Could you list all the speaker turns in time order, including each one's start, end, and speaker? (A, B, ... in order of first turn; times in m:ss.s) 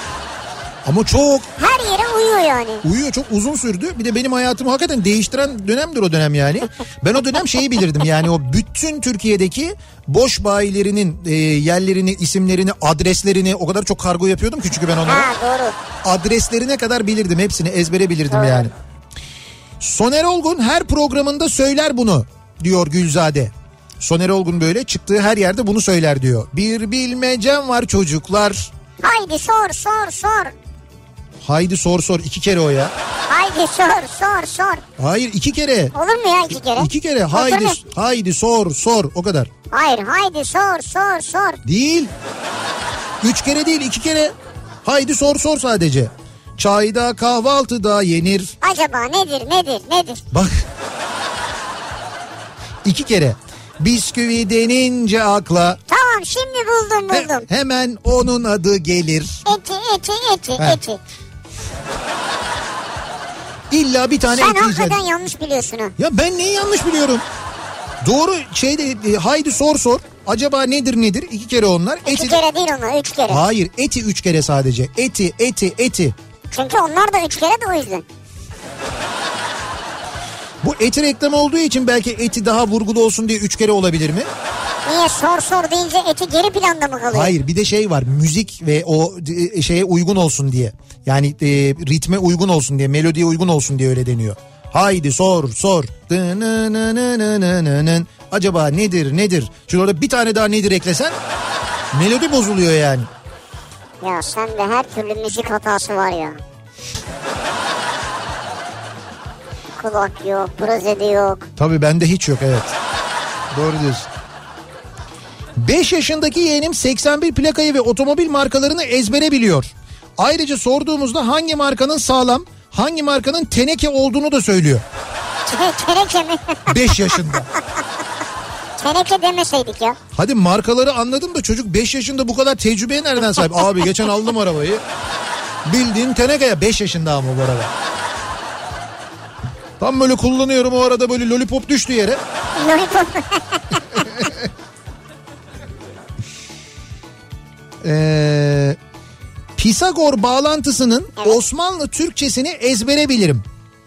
0:00.8-0:01.5 A
0:01.6-0:02.8 B
0:02.8-0:15.3 A
0:15.0-0:15.7 B
0:16.0-0:18.7 A
0:18.3-0:18.7 B
0:19.8-0:28.7 A
0:29.0-0:30.5 B
0:31.4-0:32.9 A
0:33.3-0:34.8 B
0:35.0-0:35.9 A
0:35.9-0:37.8 B
0:36.7-0:39.5 A
0:39.7-0:41.6 B
0:41.6-0:42.1 A
0:43.2-0:44.3 A
0:44.8-0:48.6 A
0:48.6-0:50.2 B
0:50.3-0:50.6 A
0:52.8-0:55.8 A
0:55.9-0:57.5 B
0:57.1-0:59.4 A
0:59.4-1:01.0 B
1:03.7-1:05.0 A
1:04.3-1:05.9 B
1:06.0-1:07.2 A
1:08.0-1:12.4 A
1:12.0-1:13.4 B
1:13.3-1:16.1 A
1:16.5-1:18.0 B
1:20.6-1:24.3 A
1:24.8-1:27.3 B
1:27.1-1:41.2 A
1:41.9-1:43.1 A
1:44.0-1:46.4 B
1:49.8-1:51.5 B
1:51.6-1:52.7 A
1:53.5-1:54.1 A
1:55.6-2:04.8 A
2:05.5-2:07.3 B
2:06.7-2:07.5 A
2:08.8-2:10.0 B
2:10.1-2:14.8 A
2:15.6-2:17.7 A
2:19.8-2:22.2 A
2:22.6-2:23.8 B
2:27.8-2:28.8 A
2:29.6-2:33.4 A